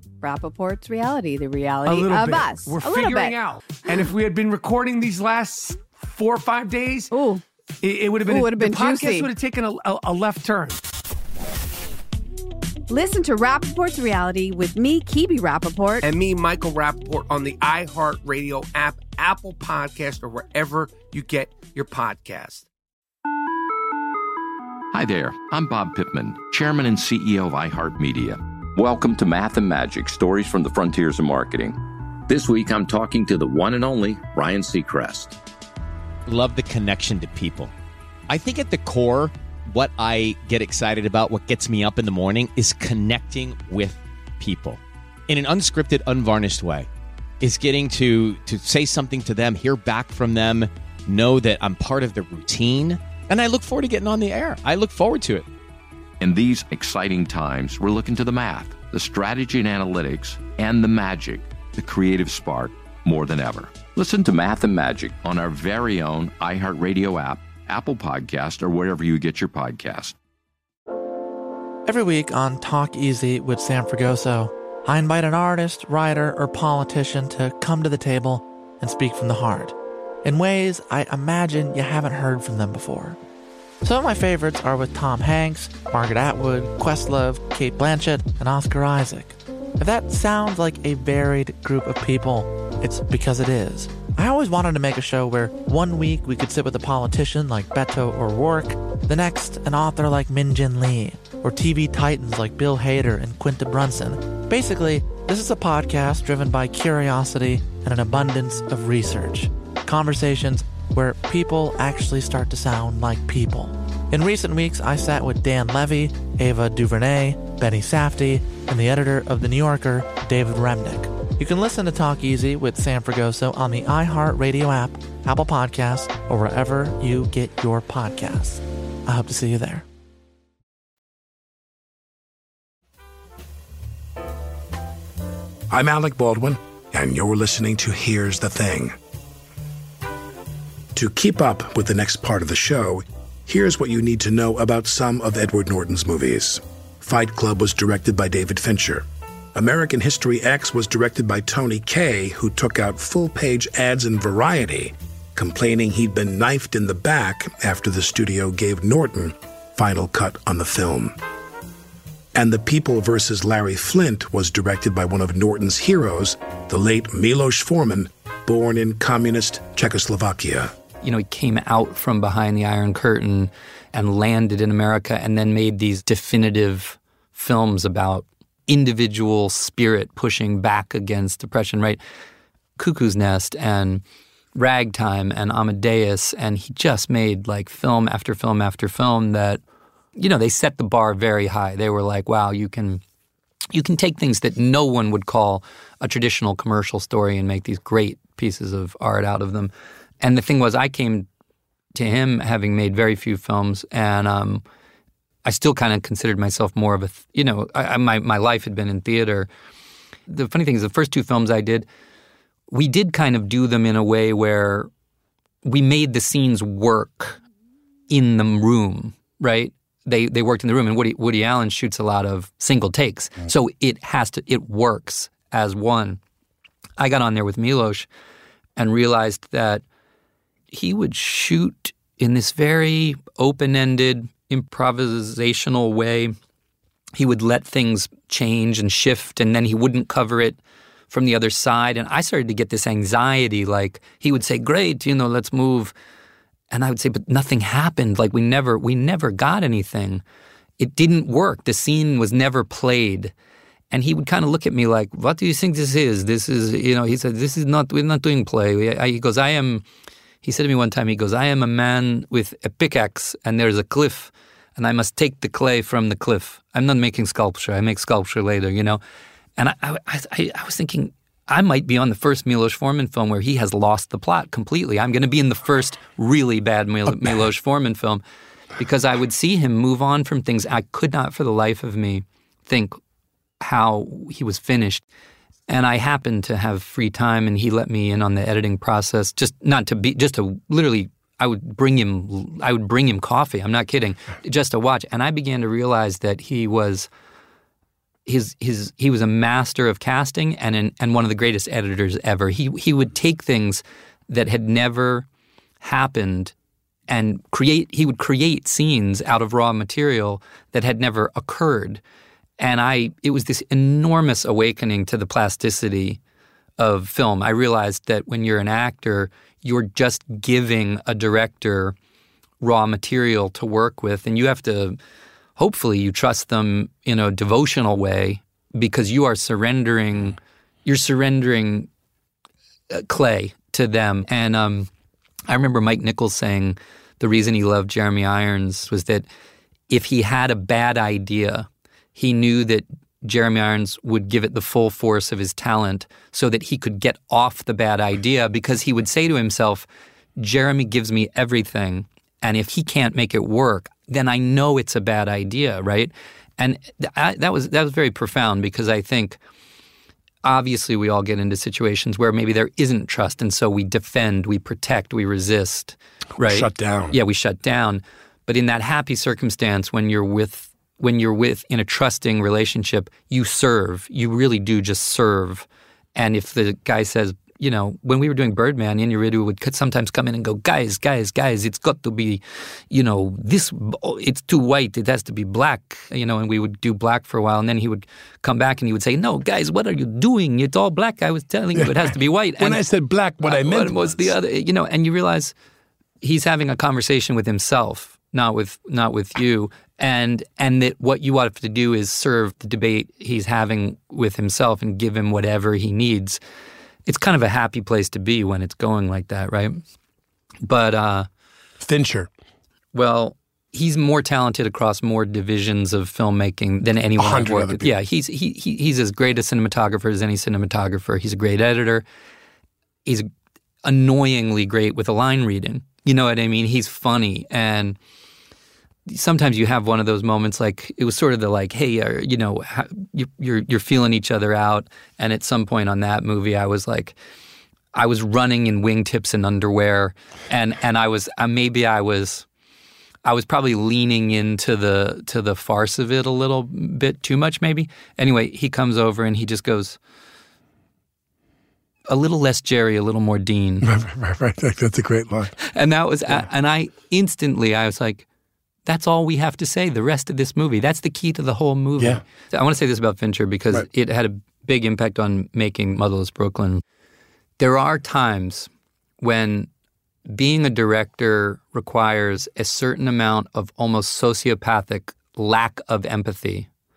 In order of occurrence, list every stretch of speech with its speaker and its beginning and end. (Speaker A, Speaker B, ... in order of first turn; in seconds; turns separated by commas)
Speaker A: 0.2-3.4, Speaker B: 1.9-7.1, Speaker A: 7.1-7.4, Speaker B: 7.8-10.8, Speaker A: 8.2-9.3, Speaker A: 12.9-16.0, Speaker B: 16.0-22.7, Speaker C: 24.9-35.4, Speaker D: 36.3-37.7, Speaker D: 38.3-46.9, Speaker D: 47.4-55.5, Speaker C: 56.2-70.1, Speaker E: 71.8-83.2, Speaker E: 83.8-129.8, Speaker F: 135.7-139.0, Speaker F: 140.9-161.2, Speaker F: 162.3-170.7, Speaker G: 171.0-182.0, Speaker G: 182.8-184.0, Speaker G: 184.5-189.6, Speaker G: 190.2-193.0, Speaker G: 193.7-201.3, Speaker G: 201.9-204.6, Speaker G: 205.4-209.5, Speaker G: 210.3-211.8, Speaker G: 212.7-214.9, Speaker G: 215.6-217.4, Speaker G: 218.1-226.2, Speaker G: 227.0-228.1, Speaker G: 228.8-229.8, Speaker G: 230.7-236.3, Speaker G: 237.2-240.6, Speaker G: 241.1-245.9, Speaker G: 246.7-250.2, Speaker G: 250.8-253.3, Speaker G: 253.9-259.8, Speaker G: 260.4-269.0, Speaker G: 269.6-278.2, Speaker F: 277.1-277.4, Speaker G: 278.8-283.0, Speaker G: 283.6-285.0, Speaker G: 285.7-297.1, Speaker G: 298.2-305.2, Speaker G: 305.8-306.5, Speaker G: 307.1-312.0, Speaker G: 312.6-316.2, Speaker G: 316.8-321.9, Speaker G: 322.6-325.0, Speaker G: 325.6-331.9, Speaker G: 332.9-334.9, Speaker G: 335.5-339.2, Speaker G: 339.9-349.9, Speaker G: 350.4-359.4, Speaker G: 360.4-392.8, Speaker F: 366.4-367.1, Speaker F: 391.7-394.4, Speaker G: 393.4-395.5, Speaker G: 396.2-406.4, Speaker G: 407.1-409.8, Speaker G: 410.6-411.3, Speaker F: 411.8-412.3, Speaker G: 412.9-422.0, Speaker F: 417.2-417.9, Speaker G: 423.8-428.0, Speaker G: 429.1-437.1, Speaker G: 437.9-442.4, Speaker G: 443.2-450.0, Speaker G: 452.1-453.9, Speaker F: 453.8-455.6, Speaker G: 455.6-458.2, Speaker G: 458.9-466.8, Speaker G: 467.6-468.7, Speaker G: 469.2-469.7, Speaker G: 470.3-476.7